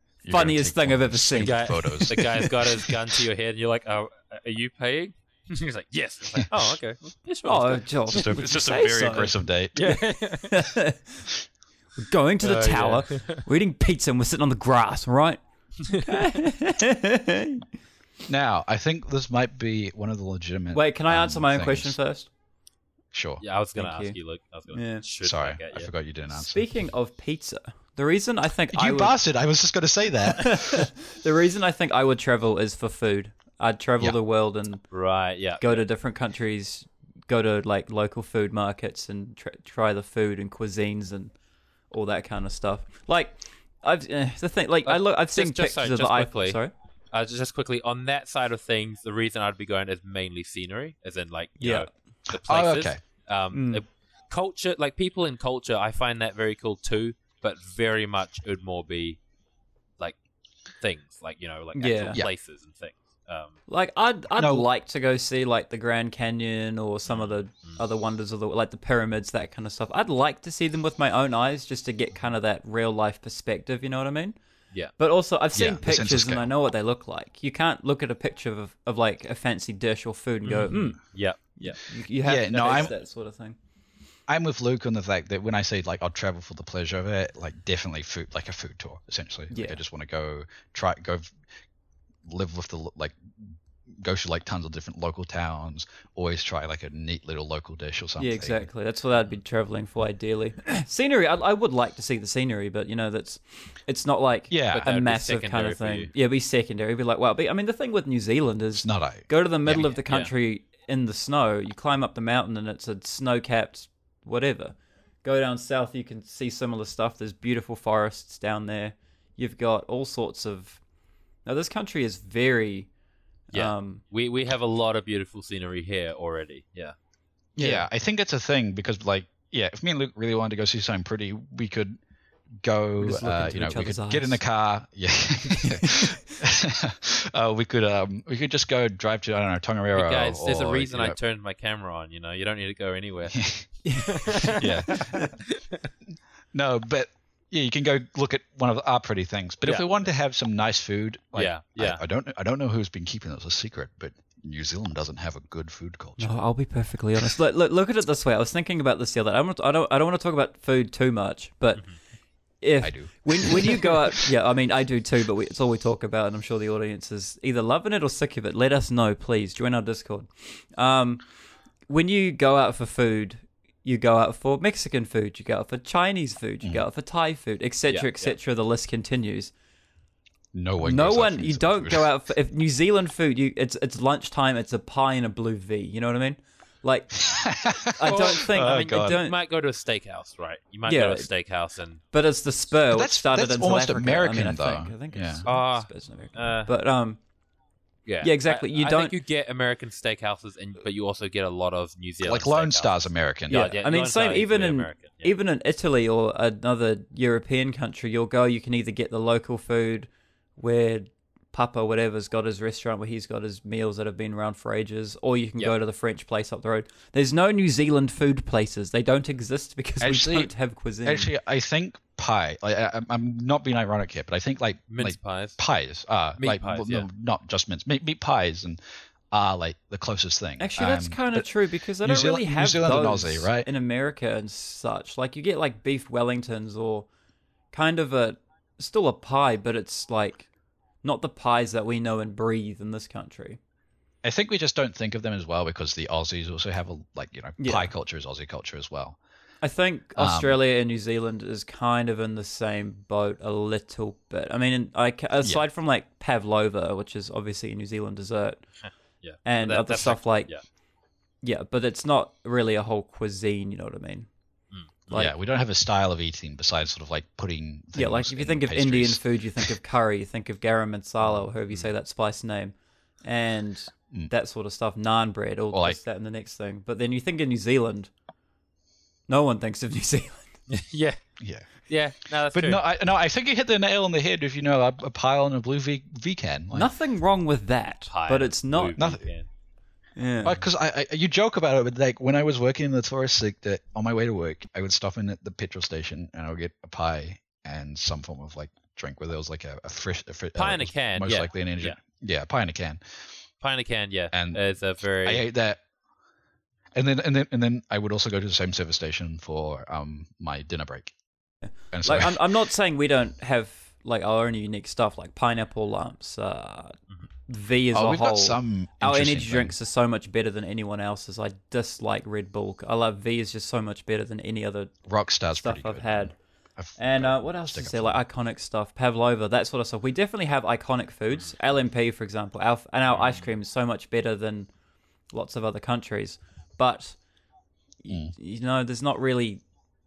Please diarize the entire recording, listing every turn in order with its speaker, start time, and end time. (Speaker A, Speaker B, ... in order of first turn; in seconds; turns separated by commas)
Speaker A: 0.2-2.8, Speaker B: 0.3-2.5, Speaker C: 1.4-8.3, Speaker B: 7.4-11.3, Speaker A: 8.1-9.8, Speaker C: 9.7-10.6, Speaker B: 12.0-17.6, Speaker C: 12.4-13.4, Speaker A: 18.3-22.0, Speaker B: 20.7-22.3, Speaker A: 23.1-23.4, Speaker C: 23.4-25.9, Speaker B: 23.7-24.1, Speaker B: 24.7-25.0, Speaker A: 25.2-26.6, Speaker B: 26.3-29.1, Speaker A: 28.7-30.9, Speaker B: 30.2-34.8, Speaker C: 34.9-35.8, Speaker B: 35.6-41.3, Speaker B: 41.9-46.7, Speaker C: 44.9-46.6, Speaker C: 47.1-59.2, Speaker B: 51.6-51.9, Speaker A: 52.3-53.0, Speaker B: 53.5-53.8, Speaker C: 60.8-63.6, Speaker B: 61.7-62.2, Speaker B: 63.7-74.4, Speaker A: 64.3-64.7, Speaker C: 67.1-67.8, Speaker B: 75.0-83.6, Speaker A: 75.5-76.5, Speaker C: 80.4-81.8, Speaker A: 82.2-82.9, Speaker C: 82.6-82.9, Speaker A: 84.3-91.3, Speaker B: 89.5-89.8, Speaker A: 92.2-98.7, Speaker B: 98.2-120.8, Speaker A: 104.5-104.9, Speaker C: 104.7-106.1, Speaker A: 108.8-109.8, Speaker C: 109.7-110.3, Speaker B: 121.5-122.9, Speaker B: 123.5-124.0, Speaker C: 123.5-126.9, Speaker B: 127.5-127.8, Speaker A: 127.6-132.0, Speaker A: 132.6-141.2, Speaker B: 133.0-134.4, Speaker B: 135.5-136.2, Speaker C: 139.9-143.5, Speaker A: 143.3-143.6, Speaker B: 143.8-145.3, Speaker C: 144.0-145.8, Speaker A: 144.4-145.3, Speaker A: 146.5-156.4, Speaker C: 149.6-150.0, Speaker C: 151.3-152.0, Speaker B: 156.2-161.9, Speaker B: 162.6-171.2, Speaker A: 162.8-163.9, Speaker B: 171.9-179.5, Speaker C: 177.9-178.3, Speaker A: 180.5-182.1, Speaker B: 180.8-187.2, Speaker A: 187.1-189.2, Speaker B: 187.9-189.4, Speaker C: 188.0-192.0, Speaker B: 190.9-191.3, Speaker B: 192.1-197.2, Speaker A: 192.9-195.4, Speaker C: 195.4-196.7, Speaker C: 198.1-205.3, Speaker B: 198.2-199.2, Speaker A: 202.2-203.7, Speaker B: 203.5-221.3, Speaker A: 220.0-220.5, Speaker A: 221.0-228.8, Speaker C: 224.9-225.6, Speaker C: 226.4-227.1, Speaker A: 229.3-233.7, Speaker B: 230.6-237.1, Speaker B: 237.7-240.5, Speaker B: 241.0-243.6, Speaker A: 244.2-249.2, Speaker B: 247.6-247.9, Speaker B: 249.6-258.6, Speaker A: 250.2-250.6, Speaker C: 258.8-260.6, Speaker B: 259.4-260.5, Speaker B: 261.4-264.3, Speaker C: 264.7-265.3, Speaker A: 265.1-269.7, Speaker B: 267.9-278.1, Speaker A: 275.7-276.0, Speaker B: 279.3-280.5, Speaker C: 280.7-281.2, Speaker A: 281.4-281.7, Speaker C: 281.9-282.8, Speaker A: 282.5-286.9, Speaker B: 286.7-289.1, Speaker C: 288.1-289.5, Speaker A: 288.9-289.3, Speaker B: 290.1-290.6, Speaker A: 290.4-303.3, Speaker C: 300.6-302.0, Speaker C: 303.6-305.4, Speaker A: 304.3-304.6, Speaker A: 305.2-305.8, Speaker A: 306.9-311.1, Speaker B: 311.6-316.9, Speaker A: 311.9-312.4, Speaker B: 317.5-324.9, Speaker A: 317.9-319.7, Speaker A: 325.1-328.2, Speaker B: 325.5-326.3, Speaker B: 327.0-334.7, Speaker C: 333.1-333.5, Speaker B: 335.3-337.2, Speaker B: 338.0-339.6, Speaker A: 338.1-338.3